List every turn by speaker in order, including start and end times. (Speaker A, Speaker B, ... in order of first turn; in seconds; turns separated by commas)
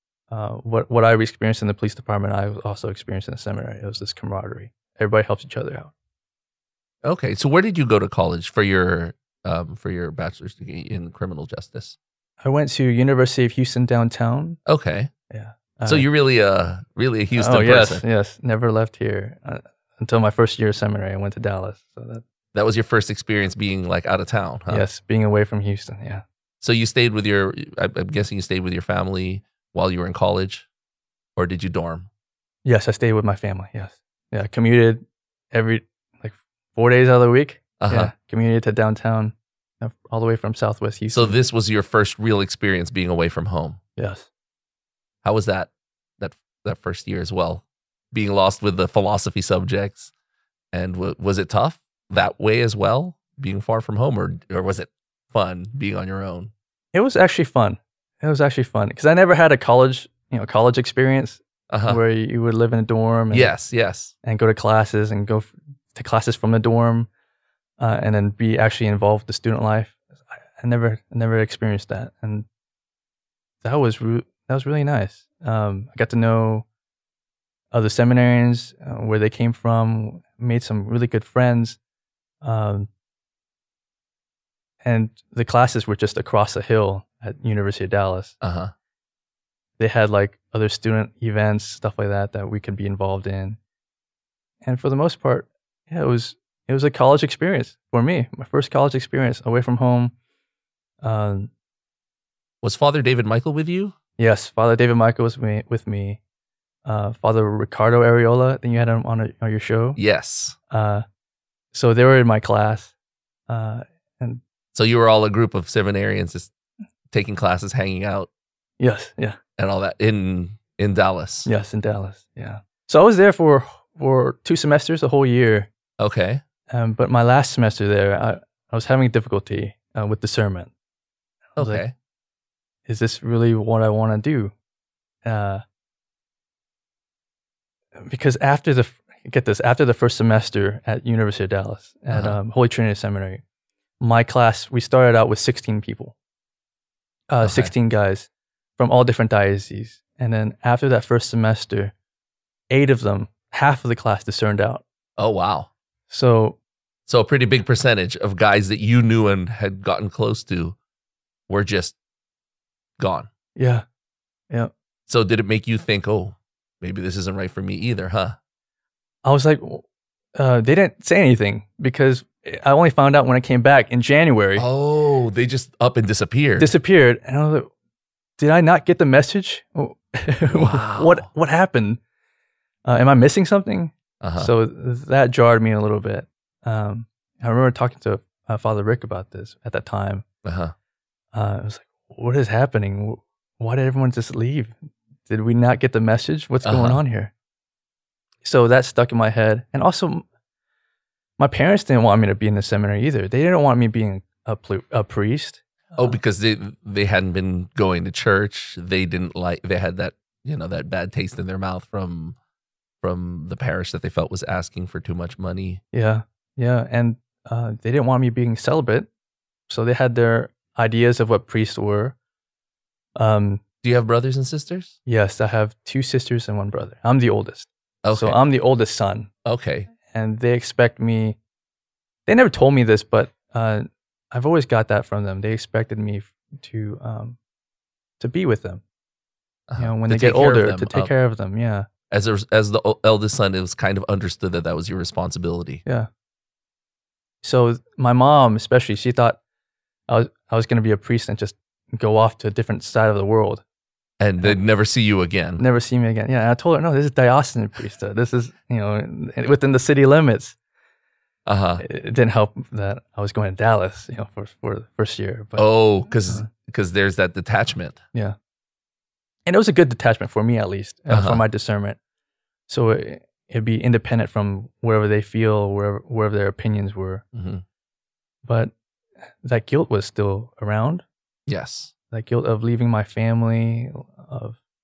Speaker A: 0.3-5.9, Speaker B: 7.0-12.0, Speaker A: 12.4-14.6, Speaker B: 14.7-15.1, Speaker A: 15.3-16.1, Speaker B: 15.8-18.0, Speaker A: 17.3-22.2, Speaker B: 22.5-24.9, Speaker A: 24.7-26.2, Speaker B: 26.6-30.7, Speaker B: 31.4-32.1, Speaker A: 32.6-41.4, Speaker B: 37.8-38.1, Speaker B: 41.1-43.8, Speaker A: 44.0-44.3, Speaker B: 45.2-50.1, Speaker B: 50.7-56.5, Speaker A: 56.9-63.5, Speaker B: 61.7-62.0, Speaker B: 63.3-64.1, Speaker A: 64.2-67.1, Speaker A: 67.8-72.5, Speaker A: 73.6-76.7, Speaker A: 77.7-81.8, Speaker A: 82.4-82.9, Speaker A: 84.8-88.3, Speaker B: 88.4-88.7, Speaker A: 89.8-93.6, Speaker A: 94.6-100.1, Speaker A: 101.0-101.5, Speaker B: 102.6-103.9, Speaker A: 104.2-106.2, Speaker A: 106.8-110.0, Speaker B: 110.0-110.5, Speaker A: 110.7-111.0, Speaker A: 111.7-112.9, Speaker A: 113.5-114.4, Speaker B: 114.7-116.5, Speaker B: 117.1-118.3, Speaker A: 118.8-119.4, Speaker B: 119.6-121.5, Speaker A: 121.5-125.7, Speaker B: 126.0-126.4, Speaker A: 126.7-130.7, Speaker A: 131.5-131.8, Speaker B: 131.6-131.9, Speaker A: 132.9-134.5, Speaker A: 135.2-135.6, Speaker A: 138.0-143.4, Speaker B: 142.1-142.4, Speaker A: 144.0-146.1, Speaker A: 147.3-151.9, Speaker B: 147.4-147.7, Speaker A: 152.7-154.8, Speaker B: 155.2-155.7, Speaker A: 156.1-156.6, Speaker B: 157.1-160.8, Speaker B: 161.5-161.9, Speaker B: 163.0-163.3, Speaker A: 163.6-163.8, Speaker B: 165.1-168.4, Speaker A: 169.2-169.8, Speaker A: 170.3-174.7, Speaker B: 174.6-176.7, Speaker A: 176.6-177.7, Speaker A: 178.4-182.0, Speaker B: 180.5-181.3, Speaker A: 182.8-190.2, Speaker B: 184.2-184.5, Speaker B: 190.4-190.7, Speaker A: 191.3-194.8, Speaker A: 195.3-197.3, Speaker B: 196.6-197.0, Speaker A: 198.4-200.2, Speaker A: 201.4-206.2, Speaker B: 206.0-212.4, Speaker B: 213.0-215.8, Speaker A: 215.9-219.1, Speaker A: 219.7-222.1, Speaker A: 223.2-223.6, Speaker B: 223.8-224.9, Speaker A: 225.1-229.3, Speaker B: 228.0-228.4, Speaker B: 229.4-229.9, Speaker A: 230.1-231.4, Speaker A: 232.3-237.4, Speaker A: 238.2-238.8, Speaker B: 239.7-241.1, Speaker A: 239.8-241.9, Speaker B: 242.1-245.8, Speaker A: 247.4-249.4, Speaker A: 250.1-253.6, Speaker B: 254.2-255.6, Speaker A: 255.6-260.6, Speaker B: 261.4-261.8, Speaker A: 261.8-265.6, Speaker B: 265.6-268.0, Speaker A: 269.4-272.0, Speaker B: 271.1-271.4, Speaker A: 272.7-277.2, Speaker B: 277.3-277.6, Speaker A: 278.4-278.7, Speaker A: 279.4-281.0, Speaker B: 281.5-281.9, Speaker A: 282.1-284.6